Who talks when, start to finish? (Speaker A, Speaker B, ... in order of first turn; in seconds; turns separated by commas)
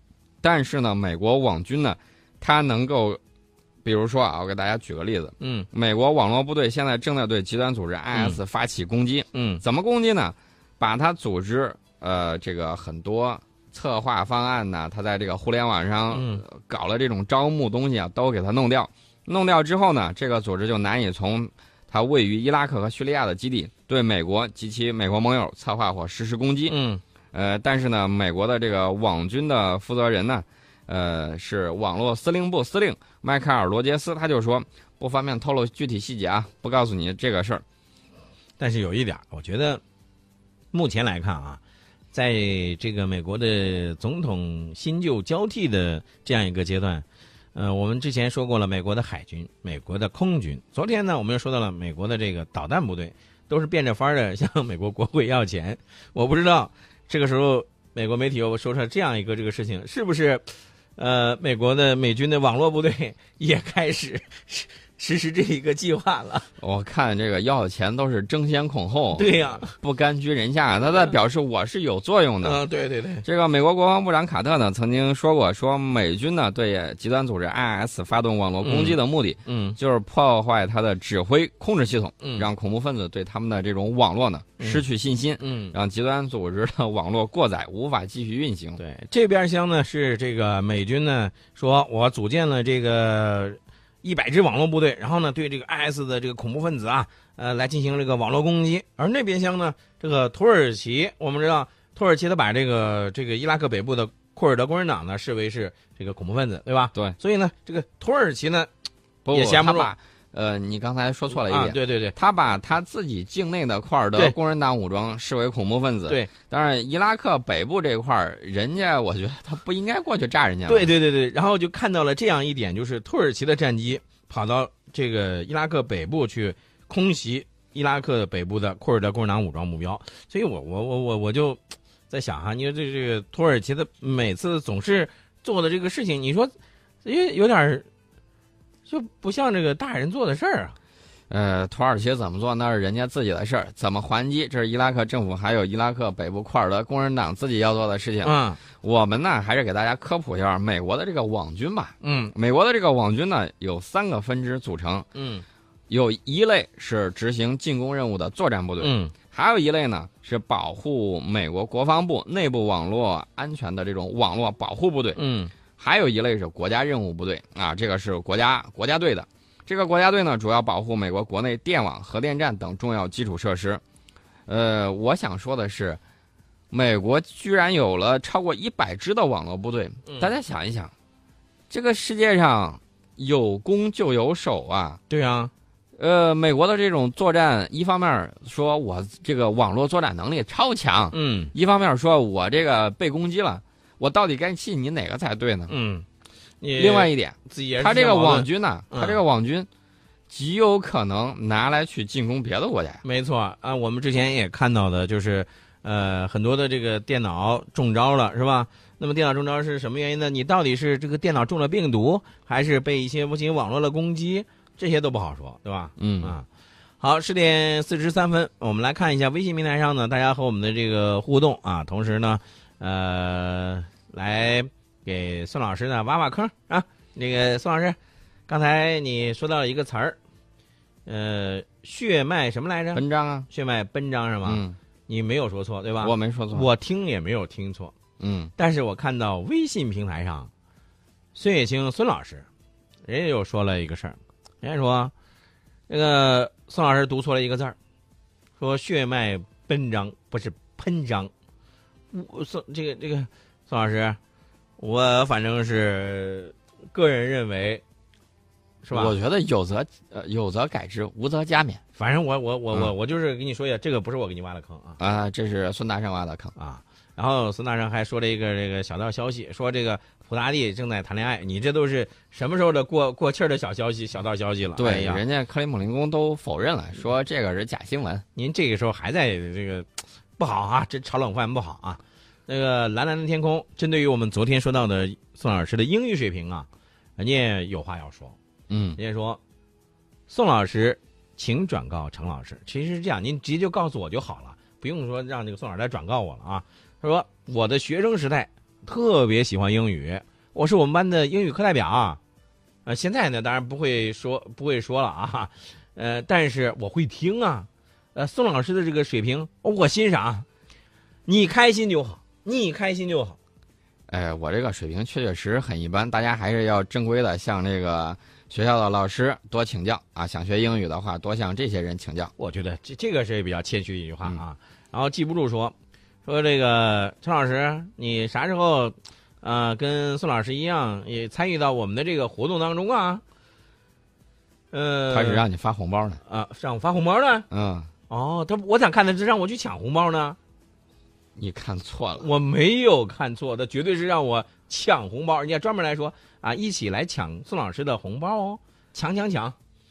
Speaker A: 0.4-3.2, Speaker A: 3.8-26.8, Speaker B: 5.4-5.7, Speaker B: 8.1-8.4, Speaker B: 9.3-9.6, Speaker B: 16.1-16.4, Speaker B: 26.7-27.0, Speaker A: 27.3-37.6, Speaker B: 38.6-39.8, Speaker B: 40.7-41.6, Speaker B: 42.1-66.5, Speaker A: 66.6-72.6, Speaker B: 69.2-69.7, Speaker B: 72.4-73.2, Speaker A: 73.2-88.8, Speaker B: 78.6-79.8, Speaker B: 82.2-82.5, Speaker B: 84.6-84.8, Speaker B: 85.4-85.8, Speaker B: 88.8-108.7, Speaker A: 109.2-120.9, Speaker B: 109.3-109.9, Speaker B: 111.3-112.2, Speaker B: 120.7-137.9, Speaker B: 138.9-140.8, Speaker A: 141.3-155.1, Speaker B: 148.2-148.6, Speaker B: 152.0-152.3, Speaker B: 155.1-155.4, Speaker A: 155.9-165.2, Speaker B: 158.8-159.1, Speaker B: 165.2-165.5, Speaker A: 165.8-173.8, Speaker A: 174.5-176.0, Speaker A: 176.7-180.9, Speaker B: 180.1-180.3, Speaker A: 181.7-185.0, Speaker B: 185.1-185.5, Speaker A: 186.0-195.7, Speaker B: 191.1-191.5, Speaker B: 195.7-196.1, Speaker B: 196.6-199.2, Speaker A: 196.8-199.7, Speaker A: 200.3-203.0, Speaker B: 203.0-216.5, Speaker A: 216.0-216.3, Speaker B: 217.0-228.0, Speaker B: 228.5-230.2, Speaker B: 231.1-237.9, Speaker A: 232.9-233.5, Speaker A: 234.4-234.8, Speaker A: 236.0-236.7, Speaker A: 238.2-238.5, Speaker B: 238.6-240.5, Speaker B: 241.3-242.5, Speaker B: 243.1-245.1, Speaker B: 245.9-247.8, Speaker B: 248.6-251.3, Speaker B: 252.1-254.2, Speaker B: 254.8-257.8, Speaker B: 258.8-259.1, Speaker A: 258.9-261.8, Speaker B: 262.0-265.0, Speaker A: 265.0-266.5, Speaker B: 266.6-275.2, Speaker A: 274.8-278.2, Speaker B: 278.4-286.7, Speaker B: 287.2-288.4, Speaker A: 288.7-289.0, Speaker B: 289.0-289.4, Speaker B: 290.3-302.2, Speaker B: 302.9-310.5, Speaker B: 311.3-313.4, Speaker A: 314.1-322.3, Speaker B: 322.4-325.7, Speaker B: 326.2-333.2, Speaker B: 334.7-335.4, Speaker A: 335.1-336.2, Speaker B: 336.2-337.5, Speaker A: 337.5-337.9, Speaker B: 338.1-340.4, Speaker A: 341.4-342.3, Speaker B: 342.2-349.6